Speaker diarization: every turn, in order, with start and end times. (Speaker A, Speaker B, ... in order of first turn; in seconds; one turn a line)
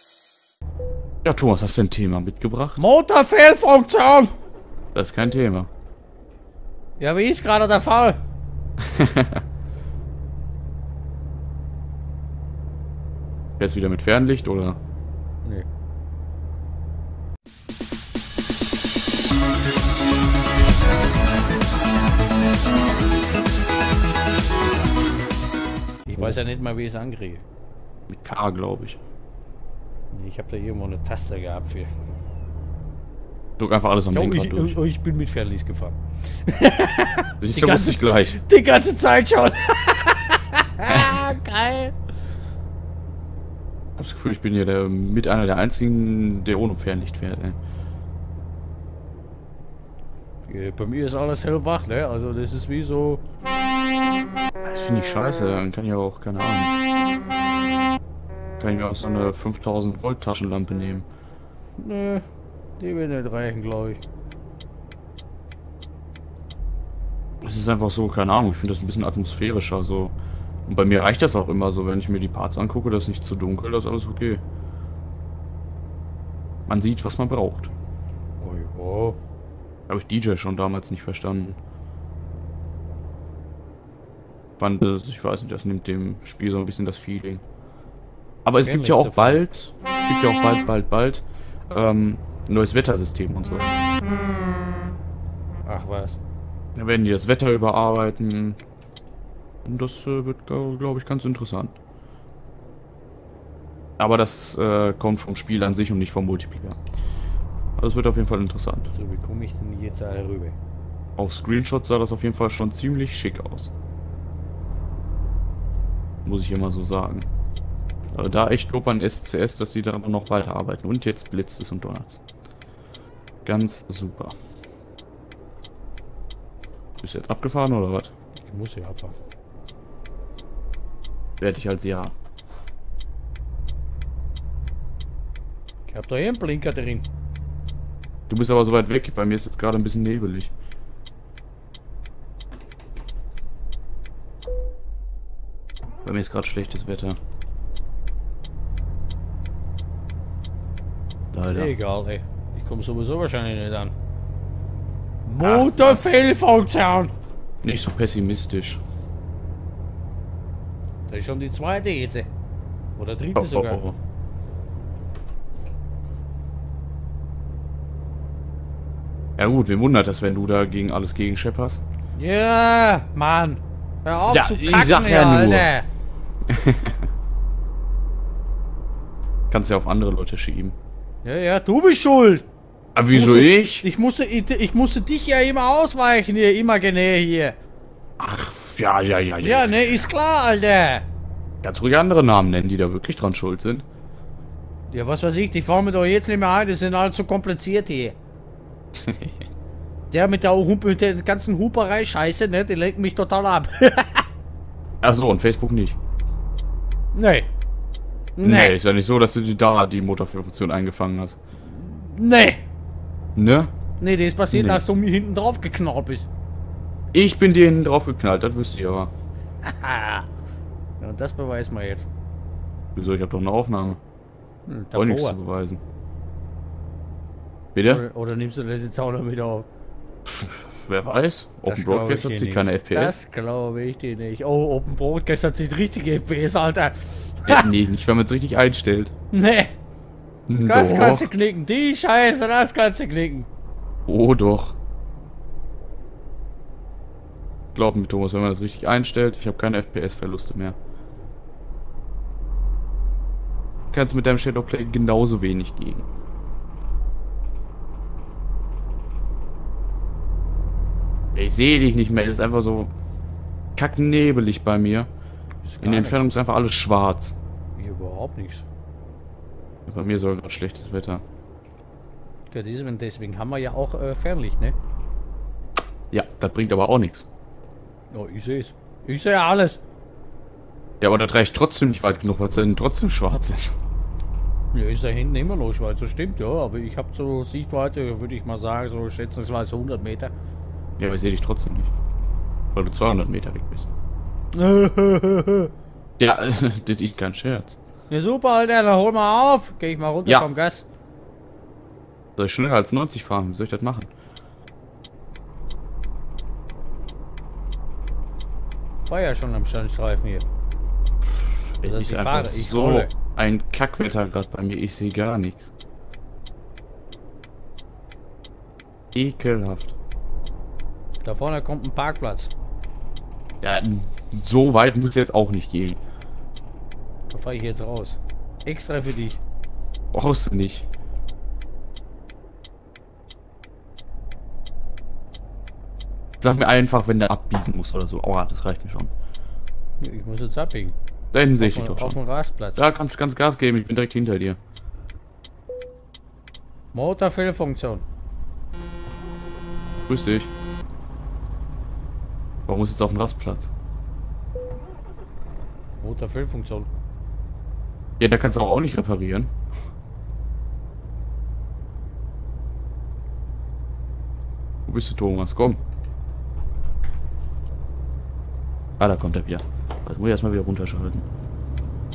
Speaker A: 1.2-2.8
Speaker B: 2.8-4.3
Speaker A: 4.9-5.7
Speaker B: 7.0-8.2
Speaker A: 8.9-9.4
Speaker A: 13.6-14.8
Speaker B: 26.1-27.4
Speaker A: 28.1-29.0
Speaker B: 30.1-31.9
Speaker A: 33.6-34.8
Speaker B: 34.1-41.9
Speaker A: 37.4-38.4
Speaker A: 40.9-41.2
Speaker A: 44.0-47.6
Speaker B: 50.5-53.2
Speaker A: 54.6-56.7
Speaker A: 58.6-61.1
Speaker B: 61.8-62.2
Speaker B: 62.8-64.0
Speaker A: 67.4-70.1
Speaker A: 70.7-74.4
Speaker A: 76.7-77.7
Speaker B: 78.4-79.2
Speaker A: 79.9-81.6
Speaker A: 84.6-87.4
Speaker A: 88.4-93.8
Speaker B: 88.6-89.4
Speaker B: 95.7-96.2
Speaker A: 96.7-98.6
Speaker A: 99.6-101.8
Speaker A: 104.0-106.8
Speaker A: 107.8-108.9
Speaker B: 108.9-110.5
Speaker A: 111.2-113.7
Speaker A: 116.2-117.3
Speaker A: 118.1-122.2
Speaker A: 123.4-124.3
Speaker A: 127.0-128.1
Speaker B: 128.4-129.1
Speaker A: 131.4-132.1
Speaker B: 135.9-137.1
Speaker A: 138.3-140.5
Speaker A: 146.0-147.2
Speaker A: 151.3-151.7
Speaker B: 151.5-153.9
Speaker B: 155.2-157.1
Speaker A: 155.4-156.1
Speaker A: 157.6-158.8
Speaker B: 161.1-162.3
Speaker B: 162.9-163.8
Speaker A: 163.3-164.0
Speaker A: 169.4-171.8
Speaker B: 172.1-175.9
Speaker A: 174.3-175.7
Speaker A: 176.5-177.0
Speaker A: 179.5-180.8
Speaker B: 181.2-182.5
Speaker A: 182.9-183.8
Speaker B: 183.1-187.6
Speaker A: 188.2-190.1
Speaker B: 189.4-191.0
Speaker A: 191.6-193.8
Speaker B: 194.9-198.2
Speaker A: 199.1-199.4
Speaker B: 200.1-204.2
Speaker A: 205.0-206.0
Speaker B: 207.1-207.5
Speaker B: 208.4-208.8
Speaker A: 208.4-211.4
Speaker B: 211.7-212.6
Speaker A: 213.3-213.7
Speaker B: 214.0-216.3
Speaker A: 214.5-214.8
Speaker A: 217.1-219.1
Speaker B: 219.6-220.3
Speaker B: 221.0-222.1
Speaker A: 222.9-224.0
Speaker B: 224.7-225.4
Speaker A: 224.9-225.8
Speaker A: 227.7-228.0
Speaker B: 227.8-229.7
Speaker A: 230.2-233.2
Speaker B: 231.7-237.7
Speaker A: 237.4-239.1
Speaker B: 239.3-239.7
Speaker A: 240.5-241.3
Speaker B: 240.6-243.5
Speaker A: 244.1-244.8
Speaker A: 247.7-250.8
Speaker A: 253.9-256.1
Speaker A: 261.3-262.9
Speaker A: 263.8-265.1
Speaker B: 265.6-266.3
Speaker A: 265.8-267.4
Speaker B: 267.8-268.6
Speaker A: 269.9-271.2
Speaker B: 272.5-274.8
Speaker A: 276.1-277.2
Speaker B: 278.1-279.8
Speaker A: 281.0-283.7
Speaker B: 284.7-290.3
Speaker A: 291.0-291.9
Speaker A: 292.7-293.9
Speaker B: 294.5-295.7
Speaker A: 296.2-297.8
Speaker B: 298.1-300.8
Speaker A: 302.4-304.1
Speaker B: 309.0-310.4
Speaker A: 311.3-315.7
Speaker B: 311.8-313.1
Speaker A: 319.1-319.9
Speaker B: 321.2-322.5
Speaker A: 323.6-326.0
Speaker B: 327.3-329.4
Speaker A: 330.1-330.9
Speaker A: 336.4-339.1
Speaker B: 340.0-340.9
Speaker A: 341.3-342.2
Speaker B: 341.6-342.9
Speaker A: 342.8-344.6
Speaker B: 346.9-348.0
Speaker A: 350.1-350.5
Speaker A: 352.7-353.7
Speaker B: 356.0-356.9
Speaker A: 358.2-359.5
Speaker A: 364.9-365.8
Speaker A: 369.0-371.2